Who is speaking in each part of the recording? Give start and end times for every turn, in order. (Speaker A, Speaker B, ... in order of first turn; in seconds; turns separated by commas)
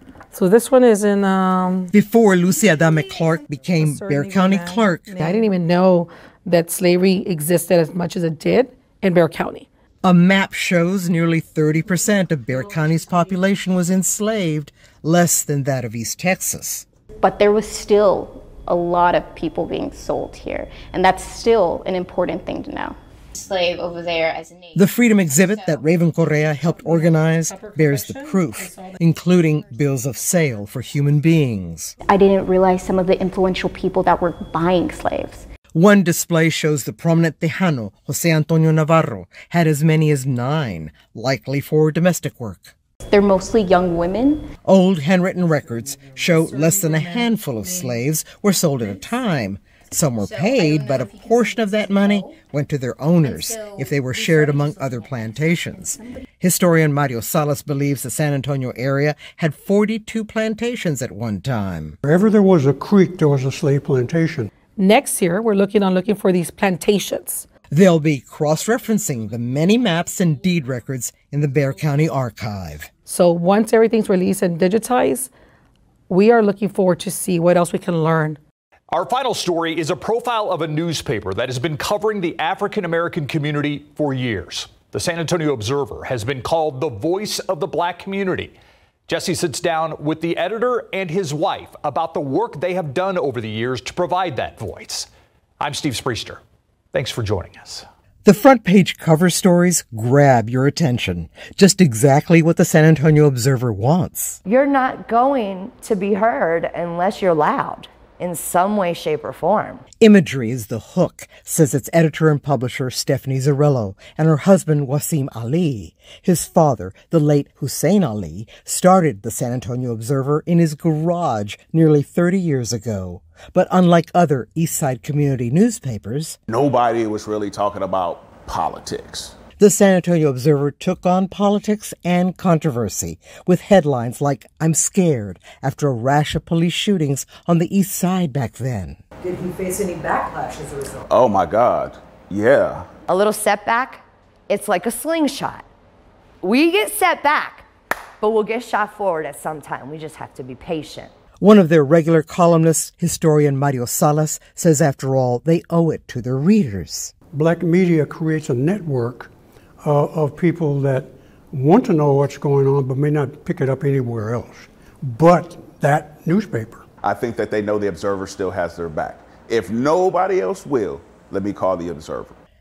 Speaker A: 0.3-1.9, Speaker B: 1.9-5.2, Speaker A: 3.7-9.7, Speaker B: 10.0-16.9, Speaker C: 17.2-22.9, Speaker D: 23.4-25.9, Speaker B: 24.7-31.9, Speaker A: 26.7-29.0, Speaker C: 32.0-35.4, Speaker B: 35.7-42.8, Speaker C: 43.1-44.4, Speaker B: 44.6-62.0, Speaker E: 62.0-64.5, Speaker A: 64.8-67.5, Speaker B: 67.7-72.9, Speaker A: 73.1-75.3, Speaker A: 76.1-78.4, Speaker F: 78.9-88.5, Speaker F: 89.1-95.1, Speaker F: 95.6-96.4, Speaker F: 96.9-97.9, Speaker B: 98.2-104.4, Speaker G: 104.4-109.8, Speaker B: 110.0-126.4, Speaker H: 126.5-129.3, Speaker B: 129.6-141.0, Speaker G: 140.1-140.4, Speaker G: 143.1-145.7, Speaker G: 146.4-147.7, Speaker G: 148.2-151.1, Speaker B: 151.4-157.1, Speaker E: 157.3-166.8, Speaker H: 167.1-171.9